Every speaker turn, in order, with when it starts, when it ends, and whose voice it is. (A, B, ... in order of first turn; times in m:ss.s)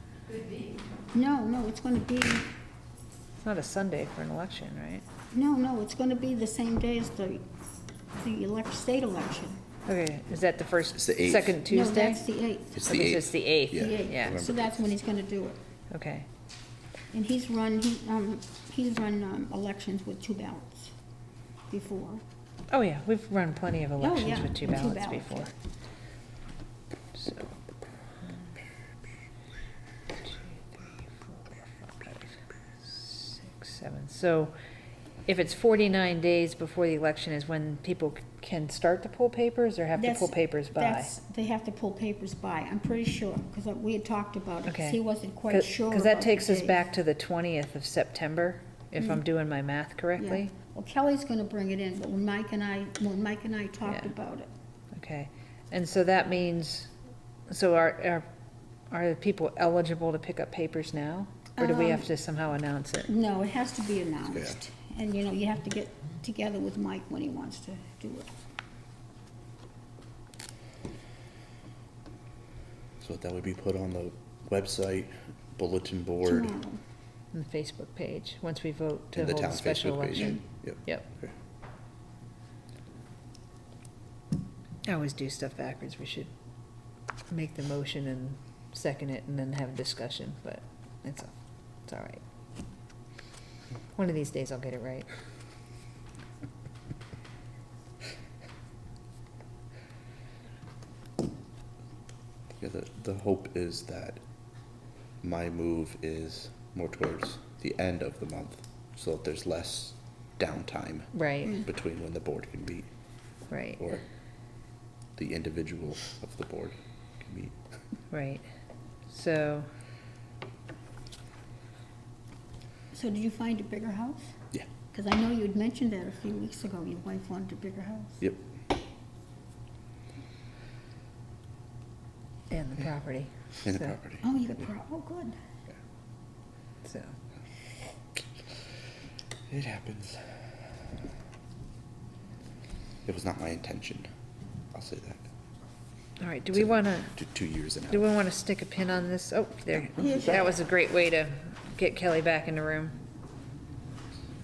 0:01.1-0:02.5 A
0:03.4-0:05.0 B
0:05.3-0:07.4 A
0:08.2-0:09.6 A
0:09.9-0:12.2 B
0:10.9-0:11.6 C
0:11.6-0:12.9 A
0:12.7-0:14.7 C
0:12.8-0:14.4 B
0:13.7-0:15.6 A
0:15.9-0:16.2 B
0:17.1-0:20.9 A
0:21.7-0:22.2 A
0:22.7-0:25.5 B
0:24.0-0:25.5 A
0:27.1-0:27.5 B
0:30.2-0:34.6 B
0:35.2-0:41.1 B
0:39.9-0:46.8 A
0:44.7-0:45.0 B
0:45.5-0:50.5 B
0:50.2-0:54.5 A
0:54.9-0:56.9 B
0:57.5-0:58.2 B
0:58.9-1:03.1 B
1:01.6-1:02.1 A
1:03.1-1:08.3 A
1:13.0-1:16.5 C
1:16.2-1:16.8 A
1:17.3-1:21.1 B
1:19.1-1:21.3 C
1:20.2-1:20.4 A
1:24.8-1:26.3 B
1:27.3-1:31.3 B
1:31.8-1:32.2 B
1:33.9-1:35.1 B
1:42.6-1:44.2 C
1:45.2-1:52.9 C
1:51.1-1:51.6 B
1:53.5-1:53.8 B
1:53.8-1:54.0 C
1:55.2-1:57.5 C
1:58.1-1:58.4 B
1:59.1-1:59.7 B
2:02.9-2:08.2 A
2:12.5-2:14.0 B
2:13.6-2:14.2 C
2:14.2-2:15.4 A
2:16.8-2:17.1 B
2:19.5-2:20.2 C
2:23.0-2:24.1 C
2:24.7-2:25.2 C
2:26.2-2:27.1 B
2:26.5-2:28.1 C
2:27.9-2:32.9 B
2:30.0-2:30.4 A
2:30.0-2:30.4 C